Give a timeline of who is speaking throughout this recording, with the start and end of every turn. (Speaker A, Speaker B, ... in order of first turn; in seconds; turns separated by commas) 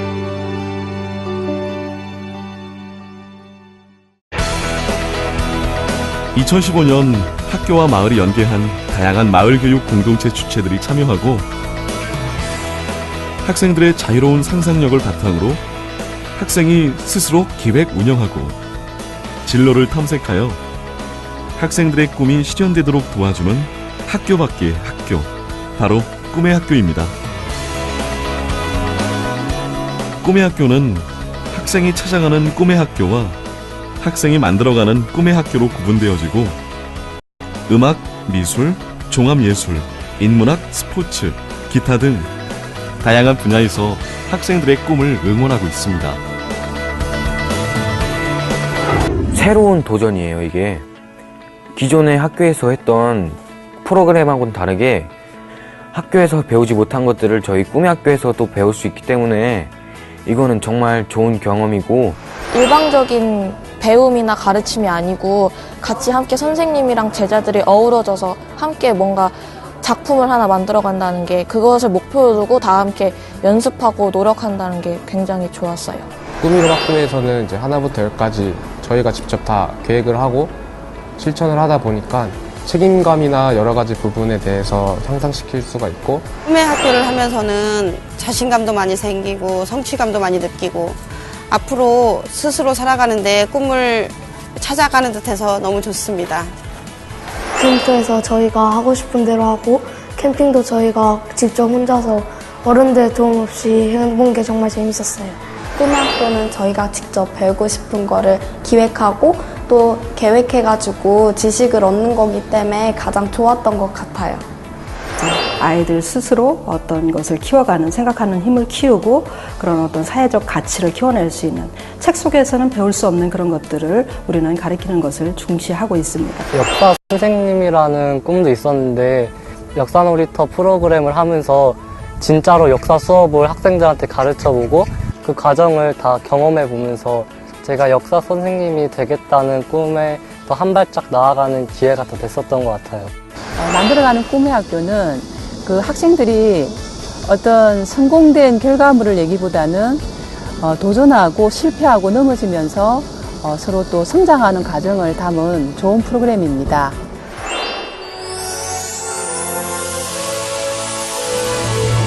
Speaker A: 6.3-11.5, Speaker A: 13.4-15.6, Speaker A: 16.4-18.6, Speaker A: 19.4-20.6, Speaker A: 21.6-27.1, Speaker A: 30.2-33.4, Speaker A: 34.0-36.6, Speaker A: 37.7-42.3, Speaker A: 43.0-46.2, Speaker B: 49.3-50.9, Speaker B: 51.7-55.1, Speaker B: 55.9-59.7, Speaker B: 60.2-62.2, Speaker C: 62.5-76.1, Speaker D: 76.4-80.5, Speaker D: 81.2-86.3, Speaker E: 86.5-96.5, Speaker F: 97.6-105.4, Speaker G: 105.7-114.5, Speaker H: 115.2-126.5, Speaker I: 126.5-143.1, Speaker J: 143.6-150.0, Speaker J: 150.6-156.9